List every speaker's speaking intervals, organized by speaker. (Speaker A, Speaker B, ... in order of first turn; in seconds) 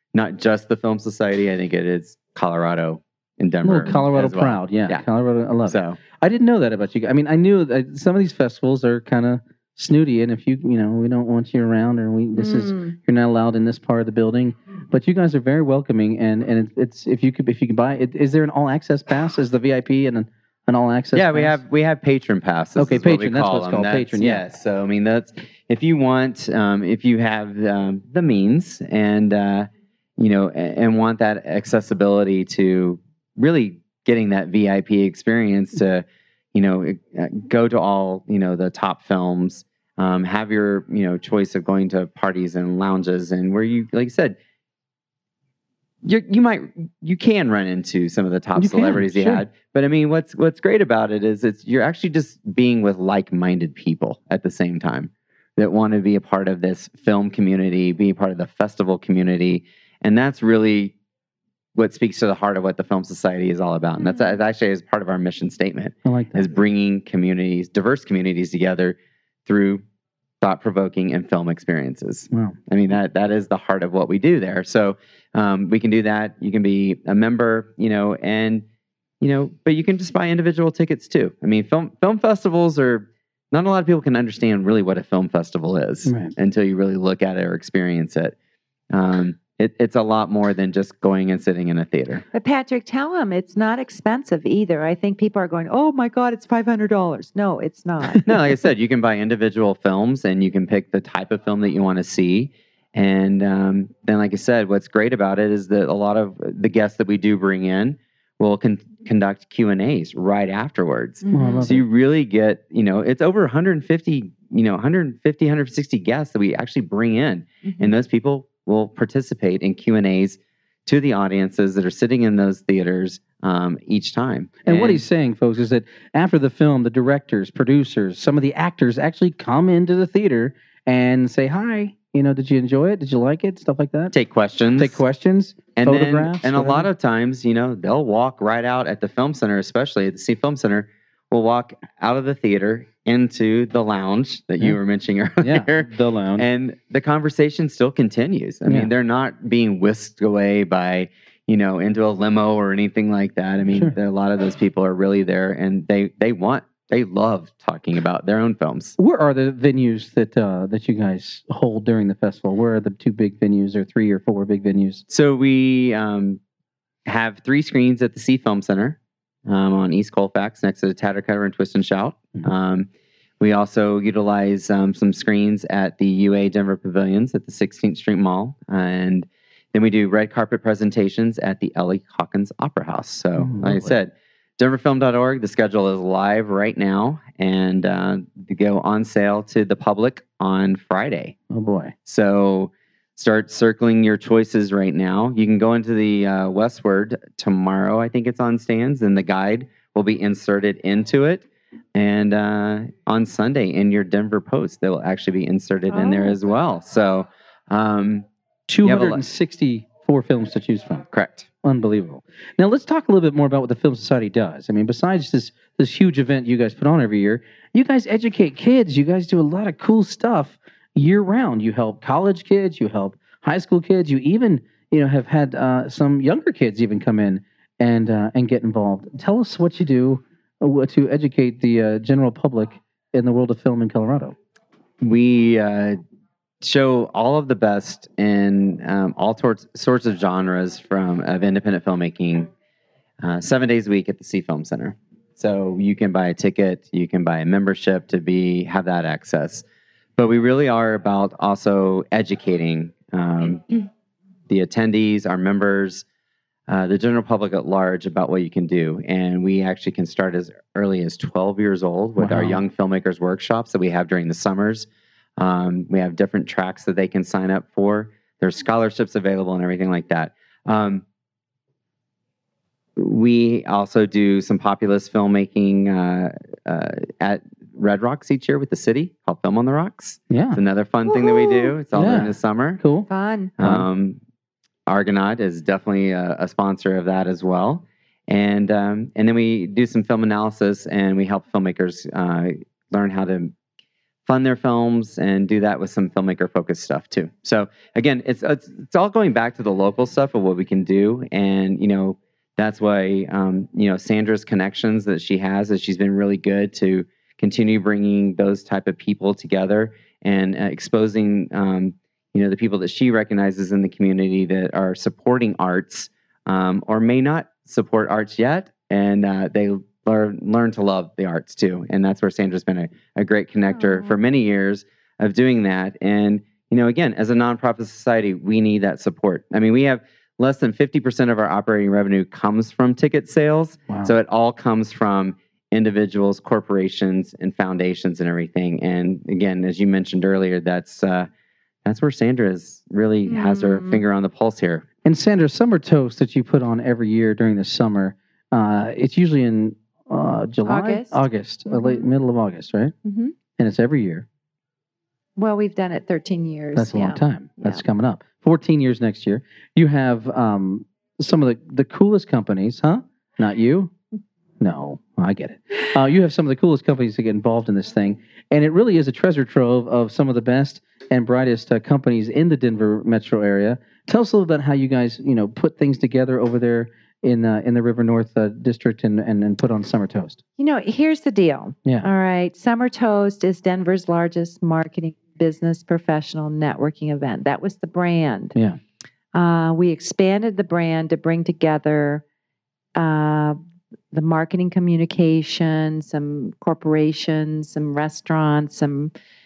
Speaker A: 0.1-5.0, 5.7-6.0, 21.1-44.4, 46.0-60.9, 61.8-69.8, 70.4-78.6, 79.2-88.3, 88.9-92.2, 98.2-125.0, 134.1-135.0, 135.8-158.9, 165.1-166.4, 167.1-172.9, 173.4-191.3, 192.1-208.2, 208.8-209.2, 211.1-211.5, 235.0-236.0, 236.6-242.5, 243.2-249.6, 250.2-253.9, 254.5-256.0, 256.7-264.9, 265.4-271.0, 273.0-282.8, 283.6-284.2, 284.9-293.5, 294.2-341.3, 341.8-344.8
Speaker B: 3.6-21.6, 22.8-24.4, 48.5-49.4, 66.0-66.5, 86.0-86.3, 111.3-111.8, 124.6-134.1, 134.8-136.9, 145.4-146.4, 148.7-148.9, 153.7-154.0, 159.0-165.0, 183.4-183.9, 191.5-191.9, 208.7-211.1, 211.6-234.3, 262.2-262.6, 280.3-280.6, 281.9-283.1, 283.6-283.9, 333.9-334.1, 345.0-352.9, 353.6-354.2, 356.8-363.9, 364.6-380.4
Speaker C: 92.3-98.3, 111.2-111.7, 205.9-206.3, 281.1-281.7, 283.1-283.5, 343.3-344.0, 350.6-352.1, 353.0-353.3, 355.4-357.8, 380.6-388.5, 389.3-392.2, 392.9-393.6, 394.1-399.1